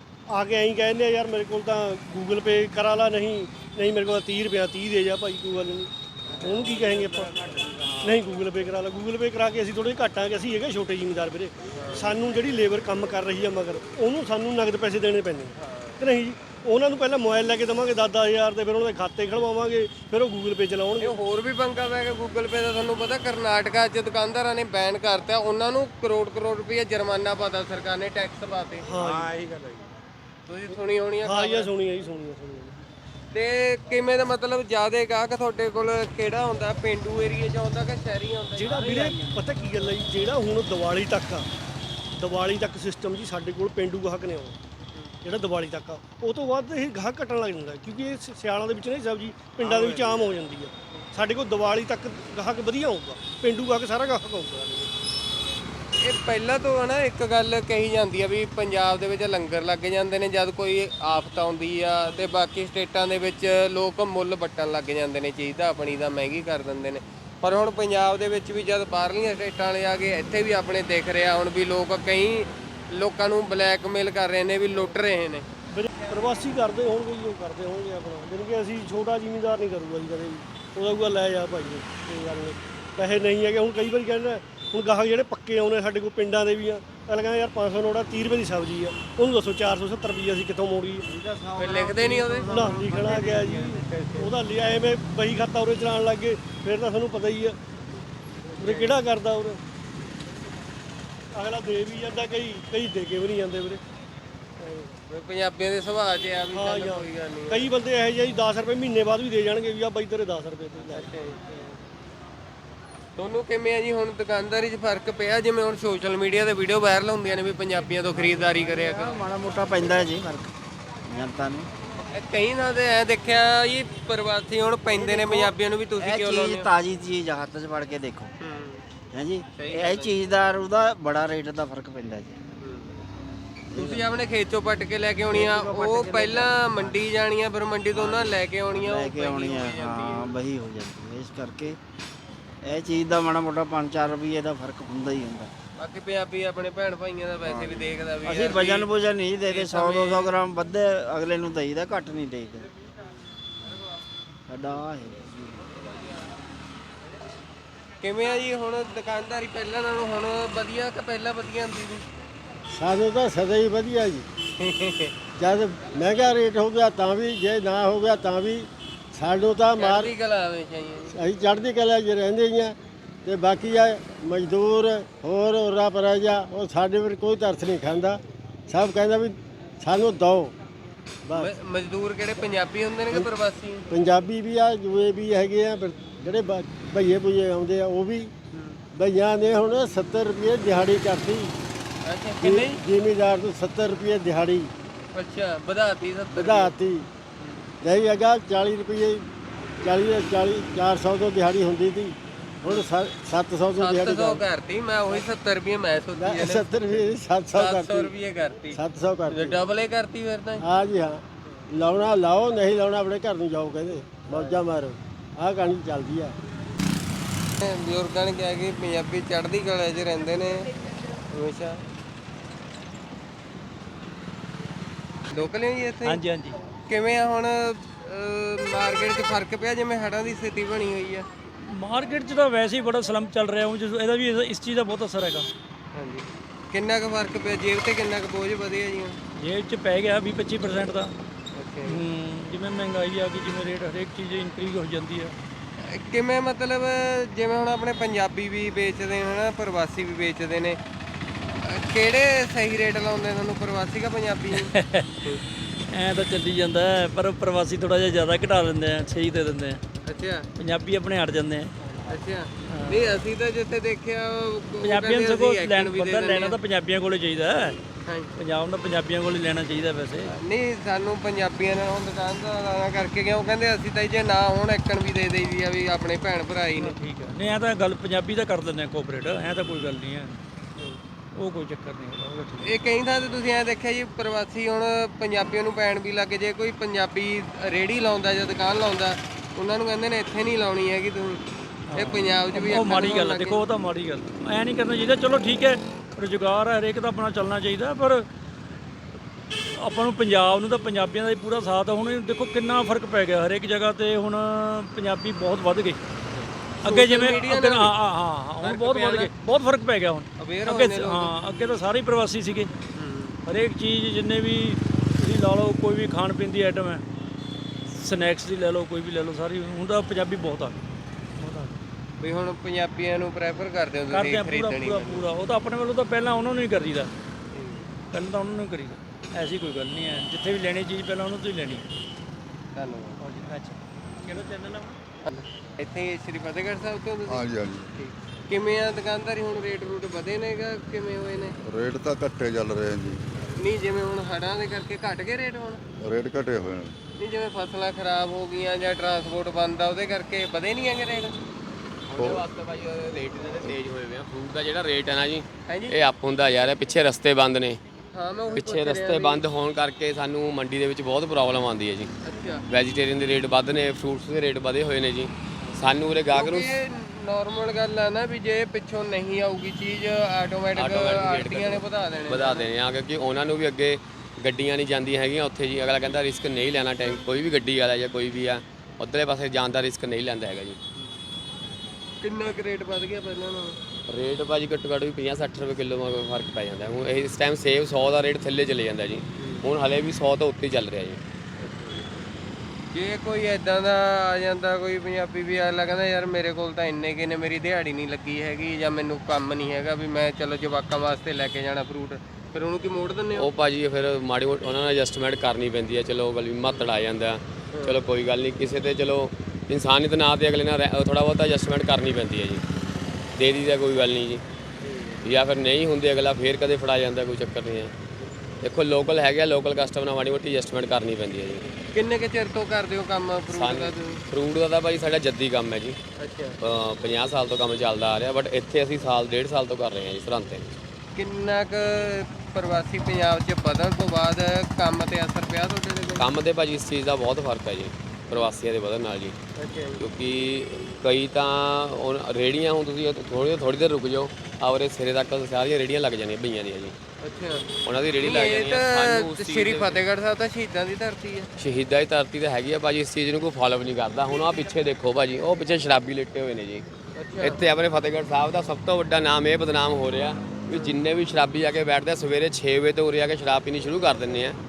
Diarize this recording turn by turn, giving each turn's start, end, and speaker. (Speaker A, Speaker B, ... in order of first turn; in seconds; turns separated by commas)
Speaker A: 0.3-21.1, Speaker B: 6.3-6.8, Speaker C: 7.5-8.1, Speaker B: 11.7-12.1, Speaker B: 15.6-16.0, Speaker B: 21.0-28.9, Speaker A: 28.8-29.6, Speaker B: 30.5-31.7, Speaker A: 31.2-32.8, Speaker B: 33.3-39.3, Speaker A: 38.5-41.5, Speaker A: 42.2-44.6, Speaker A: 45.2-54.9, Speaker B: 49.6-50.3, Speaker B: 56.0-75.5, Speaker A: 75.7-91.1, Speaker B: 91.6-94.3, Speaker A: 92.5-97.6, Speaker B: 98.6-99.0, Speaker A: 98.6-99.6, Speaker A: 101.3-103.8, Speaker A: 104.6-104.9, Speaker B: 105.1-107.7, Speaker A: 106.5-111.1, Speaker B: 110.9-111.5, Speaker B: 113.2-119.2, Speaker C: 118.1-120.5, Speaker C: 121.1-121.7, Speaker B: 122.1-126.7, Speaker C: 124.9-128.3, Speaker B: 128.4-128.8, Speaker C: 129.1-132.4, Speaker B: 129.6-130.1, Speaker B: 132.6-133.0, Speaker C: 133.7-134.1, Speaker B: 133.7-140.3, Speaker C: 135.3-137.0, Speaker C: 137.9-141.8, Speaker C: 142.6-145.5, Speaker B: 145.8-148.9, Speaker C: 147.4-152.7, Speaker B: 149.5-150.3, Speaker C: 154.5-155.8, Speaker B: 158.0-162.0, Speaker D: 162.8-164.2, Speaker B: 164.6-165.1, Speaker D: 165.4-170.1, Speaker B: 169.8-171.1, Speaker D: 171.1-180.6, Speaker B: 181.4-183.9, Speaker D: 183.9-188.3, Speaker B: 188.5-188.8, Speaker D: 188.9-191.5, Speaker B: 192.1-192.8, Speaker D: 192.4-194.7, Speaker B: 195.1-196.7, Speaker D: 196.3-197.1, Speaker D: 197.8-199.3, Speaker D: 199.8-204.4, Speaker B: 203.8-210.6, Speaker D: 206.2-208.1, Speaker D: 208.7-209.6, Speaker D: 210.6-216.3, Speaker B: 214.3-214.6, Speaker B: 217.6-220.7, Speaker B: 221.3-221.8, Speaker B: 225.3-226.2, Speaker E: 226.1-226.6, Speaker B: 226.9-231.3, Speaker E: 231.7-235.5, Speaker B: 235.9-239.2, Speaker E: 239.4-241.1, Speaker B: 241.6-242.0, Speaker E: 241.9-245.3, Speaker B: 245.8-250.8, Speaker B: 251.6-254.7, Speaker E: 254.5-255.3, Speaker E: 255.9-259.8, Speaker B: 260.1-260.5, Speaker E: 260.6-262.0, Speaker B: 262.1-266.6, Speaker E: 262.7-263.2, Speaker E: 264.8-267.8, Speaker B: 268.1-268.3, Speaker E: 268.4-270.3, Speaker B: 270.3-277.0, Speaker E: 276.8-280.4, Speaker E: 281.4-282.7, Speaker B: 282.6-291.4, Speaker E: 291.9-298.3, Speaker B: 291.9-293.6, Speaker E: 299.8-306.0, Speaker B: 306.4-307.9, Speaker E: 306.8-312.7, Speaker B: 308.6-309.3, Speaker B: 310.4-311.3, Speaker B: 312.9-313.4, Speaker E: 313.5-317.0, Speaker E: 317.9-320.8, Speaker E: 321.4-321.8, Speaker B: 322.2-325.2, Speaker E: 324.1-327.1, Speaker B: 327.5-327.9, Speaker E: 328.1-331.9, Speaker B: 332.7-333.2, Speaker E: 333.2-334.9, Speaker B: 335.2-341.6, Speaker F: 337.3-337.9, Speaker F: 341.6-343.2, Speaker B: 343.6-345.8, Speaker F: 346.0-346.9, Speaker B: 347.2-351.4, Speaker G: 352.1-357.8, Speaker F: 352.2-352.4, Speaker B: 355.7-356.0, Speaker B: 358.1-359.4, Speaker G: 358.5-362.1, Speaker B: 362.2-362.6, Speaker G: 362.7-366.8, Speaker B: 366.3-372.7, Speaker G: 370.8-380.8, Speaker B: 382.2-383.8, Speaker G: 384.1-391.2, Speaker B: 389.4-389.6, Speaker B: 391.6-392.0, Speaker B: 392.9-403.5, Speaker G: 403.4-412.6, Speaker G: 413.4-414.4, Speaker B: 414.8-415.2, Speaker G: 415.2-417.9, Speaker G: 418.6-421.7, Speaker B: 421.9-424.2, Speaker G: 423.5-426.0, Speaker B: 426.2-426.6, Speaker G: 426.6-430.7, Speaker B: 431.1-436.3, Speaker G: 436.2-439.4, Speaker B: 439.6-440.0, Speaker G: 440.0-446.9, Speaker B: 447.2-451.5, Speaker G: 447.8-450.0, Speaker G: 451.6-456.9, Speaker B: 457.1-457.6, Speaker G: 457.4-464.6